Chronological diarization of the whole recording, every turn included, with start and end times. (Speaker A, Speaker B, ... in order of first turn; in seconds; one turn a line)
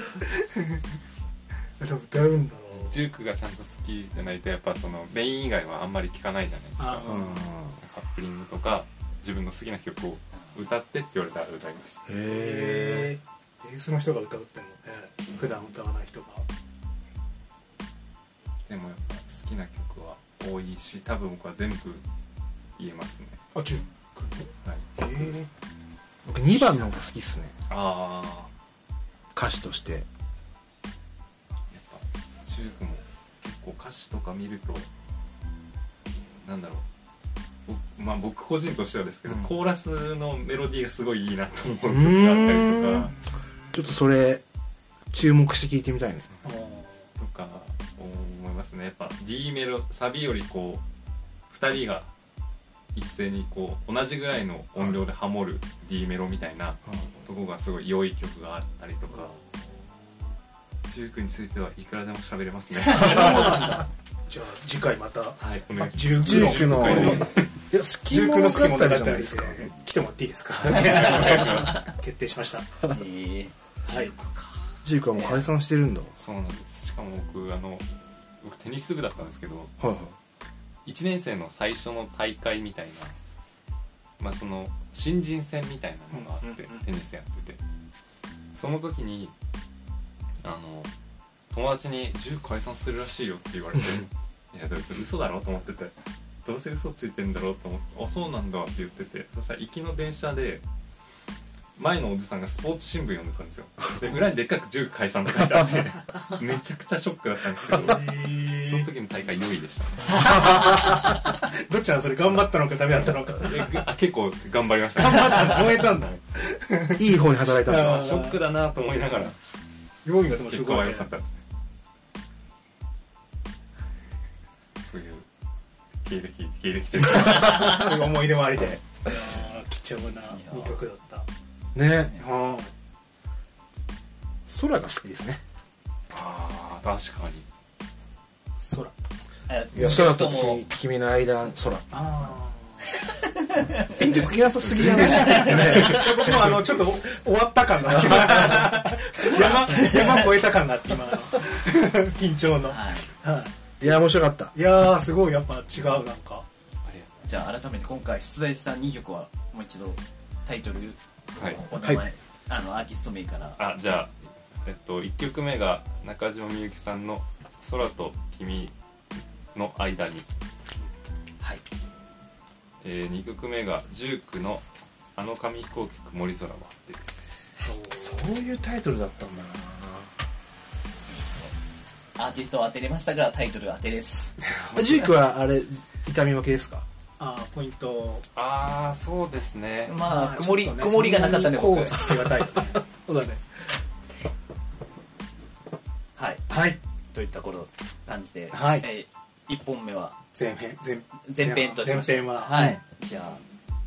Speaker A: 0.2-0.8
Speaker A: 1.8-3.1
Speaker B: 2.7-12.1
Speaker A: 6.8-7.4
Speaker C: 7.0-7.8
Speaker C: 12.1-13.1
Speaker A: 12.2-16.5
Speaker B: 18.7-22.0
Speaker B: 22.8-23.4
Speaker A: 23.5-25.5
Speaker B: 24.6-25.3
Speaker C: 26.2-27.5
Speaker B: 27.7-28.5
Speaker C: 29.3-30.1
Speaker B: 31.7-34.9
Speaker B: 36.4-36.8
Speaker B: 37.6-43.1
Speaker C: 41.7-43.1
Speaker C: 43.7-44.4
Speaker C: 45.1-46.3
Speaker A: 46.4-47.1
Speaker B: 47.2-50.8
Speaker B: 51.5-52.1
Speaker B: 52.9-59.4
Speaker A: 59.1-59.7
Speaker B: 60.9-63.8
Speaker A: 62.9-67.3
Speaker B: 65.4-67.5
Speaker C: 66.1-69.7
Speaker A: 68.1-72.7
Speaker B: 70.5-71.9
Speaker D: 70.9-71.6
Speaker D: 72.8-74.6
Speaker A: 73.9-74.1
Speaker C: 74.8-76.1
Speaker D: 75.1-75.4
Speaker B: 76.1-77.8
Speaker B: 78.4-79.7
Speaker C: 79.8-80.2
Speaker B: 80.9-83.1
Speaker B: 84.2-87.6
Speaker A: 86.1-86.9
Speaker B: 88.5-89.3
Speaker B: 90.4-90.9
Speaker B: 91.5-100.6
Speaker B: 101.8-110.6
Speaker A: 107.7-108.9
Speaker D: 110.1-110.9
Speaker A: 110.1-113.7
Speaker B: 113.4-115.9
Speaker A: 115.0-118.4
Speaker C: 117.0-118.0
Speaker B: 117.7-119.4
Speaker A: 120.0-121.1
Speaker B: 120.5-121.4
Speaker B: 124.8-125.2
Speaker B: 126.0-127.9
Speaker A: 127.2-131.3
Speaker D: 130.3-130.8
Speaker C: 131.7-132.2
Speaker A: 132.1-132.7
Speaker C: 134.5-135.4
Speaker B: 136.1-137.4
Speaker A: 138.6-138.9
Speaker D: 139.5-140.6
Speaker C: 139.7-141.9
Speaker A: 141.9-142.9
Speaker D: 143.1-144.1
Speaker C: 143.9-146.5
Speaker A: 144.6-153.5
Speaker D: 145.0-146.1
Speaker D: 149.2-150.3
Speaker D: 152.7-153.1
Speaker C: 153.8-154.5
Speaker A: 154.5-156.4
Speaker B: 156.8-157.1
Speaker D: 157.2-163.6
Speaker B: 161.4-161.6
Speaker C: 161.7-162.1
Speaker B: 163.6-168.7
Speaker B: 169.5-170.3
Speaker B: 172.8-174.6
Speaker B: 175.2-177.2
Speaker A: 177.6-178.3
Speaker C: 178.0-180.1
Speaker D: 181.1-181.6
Speaker D: 182.2-184.4
Speaker A: 184.4-185.2
Speaker C: 184.7-186.9
Speaker A: 187.2-188.2
Speaker B: 188.3-190.0
Speaker D: 189.9-192.1
Speaker A: 190.0-192.8
Speaker C: 192.5-193.4
Speaker D: 196.2-196.4
Speaker A: 196.5-196.8
Speaker D: 197.1-200.2
Speaker A: 198.5-198.9
Speaker A: 200.3-202.7
Speaker D: 201.2-203.4